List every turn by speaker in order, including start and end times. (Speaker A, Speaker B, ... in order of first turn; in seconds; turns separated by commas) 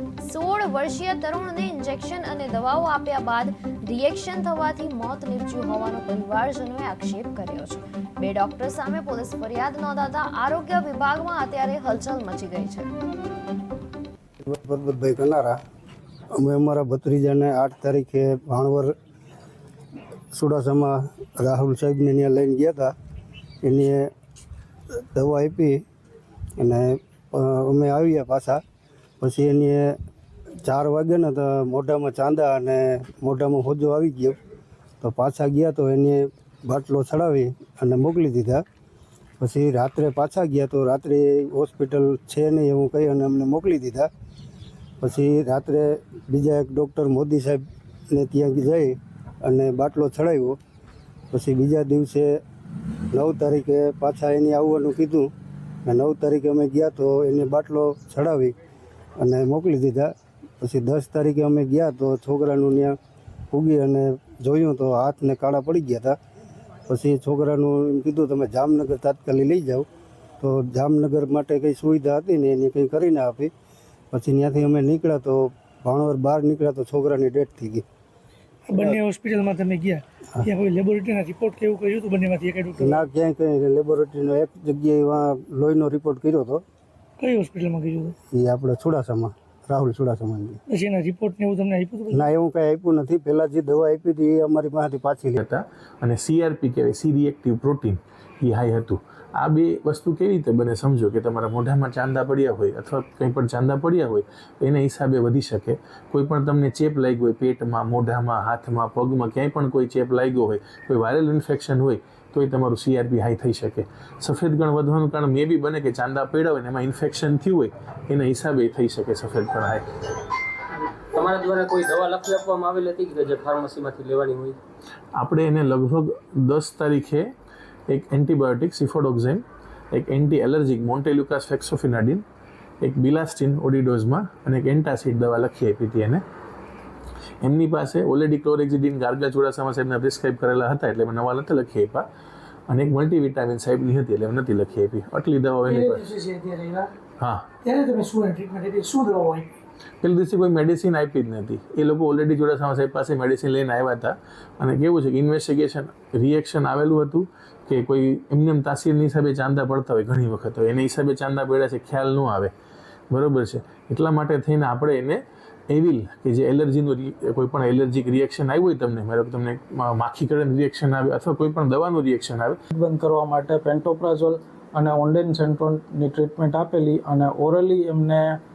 Speaker A: 0.2-12.9, Speaker B: 14.4-15.6, Speaker B: 16.4-18.9, Speaker B: 20.3-22.9, Speaker B: 23.6-24.1, Speaker B: 25.0-25.8, Speaker B: 26.6-28.6, Speaker B: 29.2-30.0, Speaker B: 30.6-34.4, Speaker B: 35.0-38.6, Speaker B: 39.4-44.1, Speaker B: 45.0-50.6, Speaker B: 51.3-52.4, Speaker B: 53.1-55.3, Speaker B: 55.9-58.5, Speaker B: 59.2-63.0, Speaker B: 63.5-66.2, Speaker B: 66.9-69.9, Speaker B: 70.4-73.5, Speaker B: 74.1-77.8, Speaker C: 78.7-83.0, Speaker B: 82.8-86.6, Speaker C: 87.2-88.2, Speaker B: 88.3-90.6, Speaker C: 90.7-92.2, Speaker B: 92.1-95.4, Speaker D: 95.4-119.8, Speaker E: 121.1-124.6, Speaker D: 125.2-127.3, Speaker D: 127.9-132.2, Speaker D: 132.8-136.2, Speaker D: 137.4-142.1, Speaker D: 142.7-146.1, Speaker C: 145.7-146.9, Speaker D: 147.2-147.5, Speaker C: 147.6-149.6, Speaker D: 150.0-162.5, Speaker D: 163.1-172.6, Speaker F: 172.7-178.4